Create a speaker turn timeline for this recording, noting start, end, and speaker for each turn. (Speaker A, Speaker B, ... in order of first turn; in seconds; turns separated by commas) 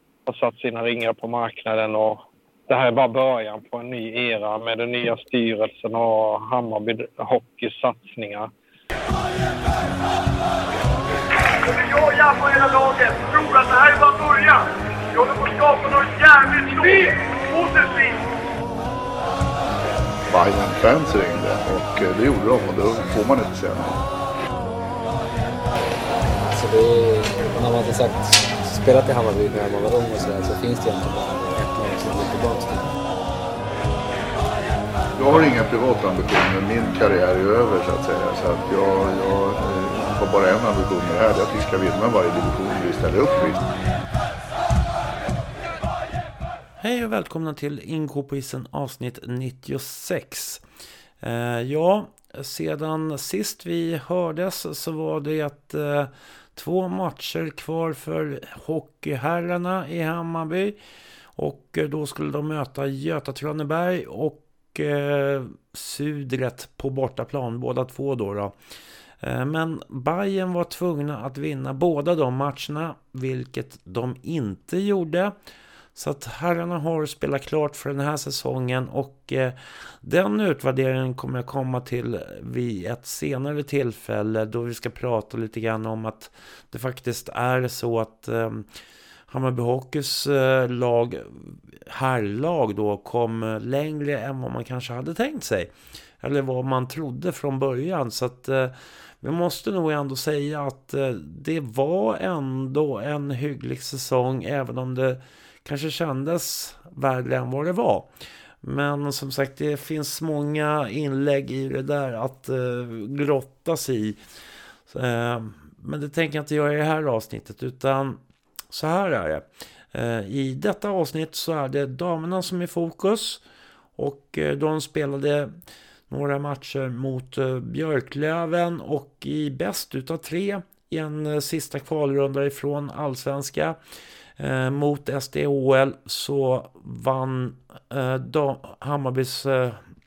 Speaker A: 0.2-8.5, Speaker B: 11.6-18.2, Speaker C: 20.3-24.0, Speaker D: 26.2-33.0, Speaker C: 35.2-43.6, Speaker E: 46.8-50.6, Speaker E: 51.2-60.8, Speaker E: 61.4-68.5, Speaker E: 69.2-75.3, Speaker E: 76.0-88.7, Speaker E: 89.3-108.1, Speaker E: 108.6-114.2, Speaker E: 114.9-118.2, Speaker E: 118.7-123.4, Speaker E: 124.0-125.5, Speaker E: 126.1-133.8, Speaker E: 134.4-139.8